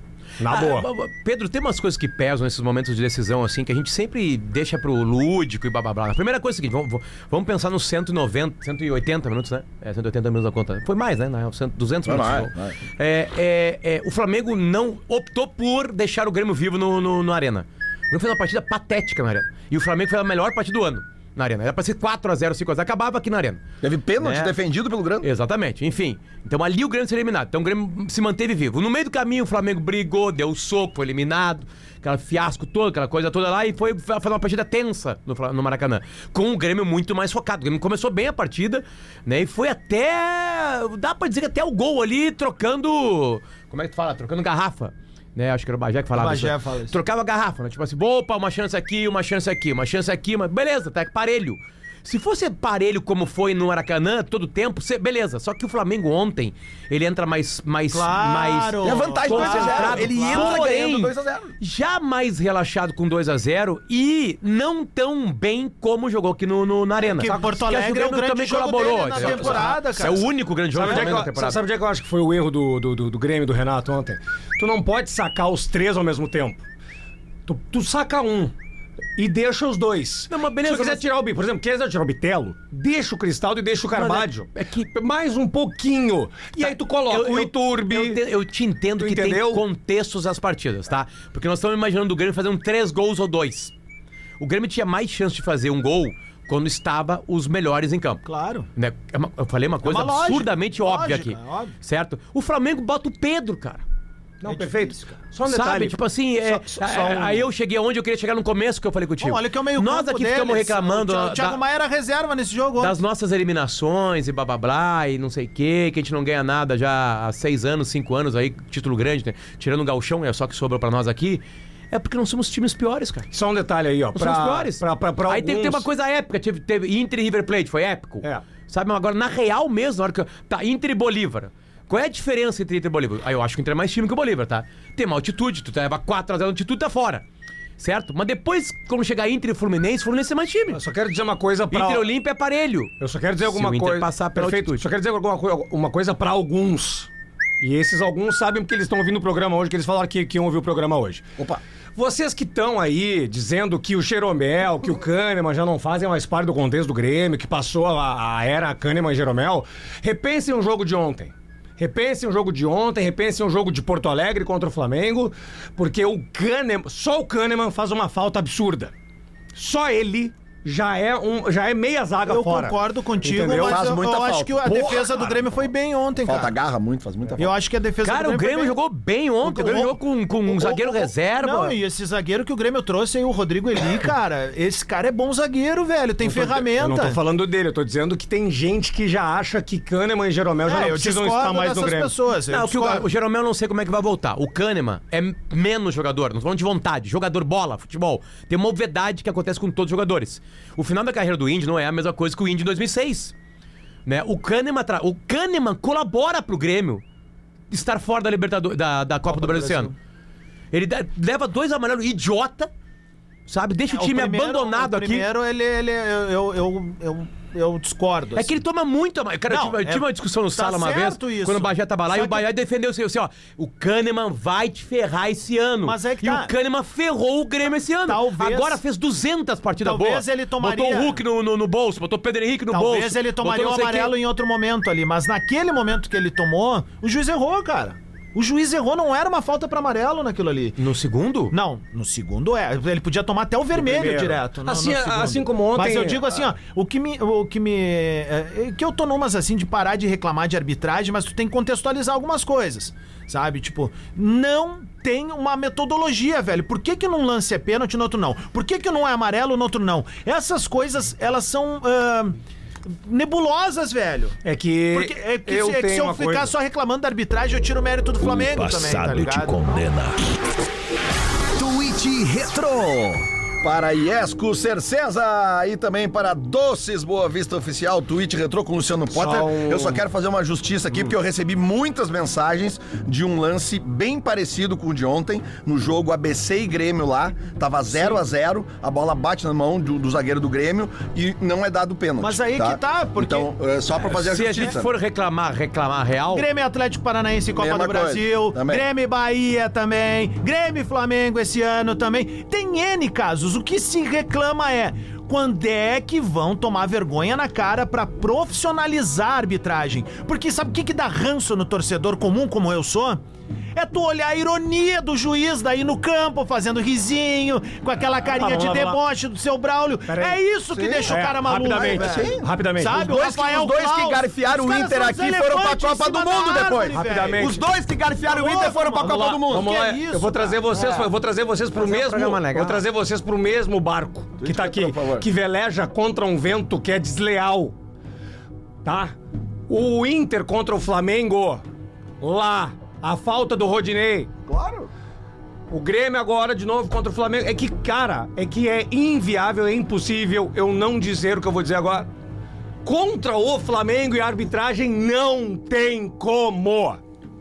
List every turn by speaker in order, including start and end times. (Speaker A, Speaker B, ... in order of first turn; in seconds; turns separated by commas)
Speaker A: 0.4-0.9, Speaker B: 0.5-23.6, Speaker C: 12.1-12.8, Speaker C: 23.8-25.3, Speaker B: 24.2-24.5, Speaker B: 25.2-71.6, Speaker D: 46.1-47.0, Speaker D: 57.9-60.6, Speaker C: 58.8-61.5, Speaker D: 67.0-70.3, Speaker A: 69.2-70.2, Speaker A: 70.7-76.6, Speaker D: 70.8-71.2, Speaker A: 77.5-78.5, Speaker A: 79.2-88.2, Speaker B: 80.3-81.0, Speaker B: 83.9-84.9, Speaker B: 86.6-93.7, Speaker A: 89.0-89.6, Speaker B: 94.4-98.2, Speaker D: 98.3-98.7, Speaker B: 98.8-103.8, Speaker D: 99.8-101.7, Speaker A: 104.4-107.5, Speaker D: 104.5-105.0, Speaker B: 105.5-111.6, Speaker D: 109.2-113.0, Speaker B: 112.8-123.3, Speaker A: 123.3-125.9, Speaker B: 124.2-137.2, Speaker B: 137.8-140.8, Speaker A: 140.7-142.1, Speaker B: 141.7-142.9, Speaker A: 143.0-147.1, Speaker B: 143.4-144.8, Speaker A: 147.6-151.2, Speaker A: 152.0-168.9, Speaker A: 169.6-173.9, Speaker D: 172.3-176.5, Speaker C: 173.6-175.2, Speaker A: 174.7-175.3, Speaker C: 176.2-177.5, Speaker D: 177.4-178.8, Speaker B: 178.0-181.8, Speaker D: 179.4-187.2, Speaker A: 186.2-192.1, Speaker D: 190.6-193.1, Speaker B: 192.5-203.3, Speaker B: 204.1-207.0, Speaker B: 207.7-209.9, Speaker D: 209.3-209.9, Speaker B: 210.7-212.7, Speaker B: 213.5-215.3, Speaker D: 213.9-218.5, Speaker B: 218.4-234.1, Speaker D: 219.5-222.4, Speaker D: 225.8-226.5, Speaker D: 228.1-228.8, Speaker D: 229.8-231.2, Speaker D: 232.7-240.8, Speaker B: 240.8-241.5, Speaker D: 241.5-264.4, Speaker A: 243.7-246.4, Speaker A: 264.4-266.5, Speaker D: 264.9-269.7, Speaker E: 268.2-270.2, Speaker C: 271.6-294.9, Speaker E: 272.0-272.8, Speaker A: 279.1-280.0, Speaker D: 292.2-293.5, Speaker B: 294.1-296.5, Speaker D: 296.3-313.2, Speaker C: 297.6-298.8, Speaker D: 313.8-327.6, Speaker A: 318.2-319.0, Speaker A: 320.1-320.4, Speaker C: 320.7-329.7, Speaker A: 321.1-323.2, Speaker A: 326.9-327.6, Speaker D: 328.2-330.6, Speaker A: 329.5-337.8, Speaker C: 330.7-331.1, Speaker B: 331.8-332.9, Speaker C: 334.4-335.3, Speaker A: 338.8-339.1, Speaker A: 339.7-341.6, Speaker A: 342.2-344.3, Speaker C: 344.5-344.9, Speaker A: 345.7-352.1, Speaker A: 352.9-357.0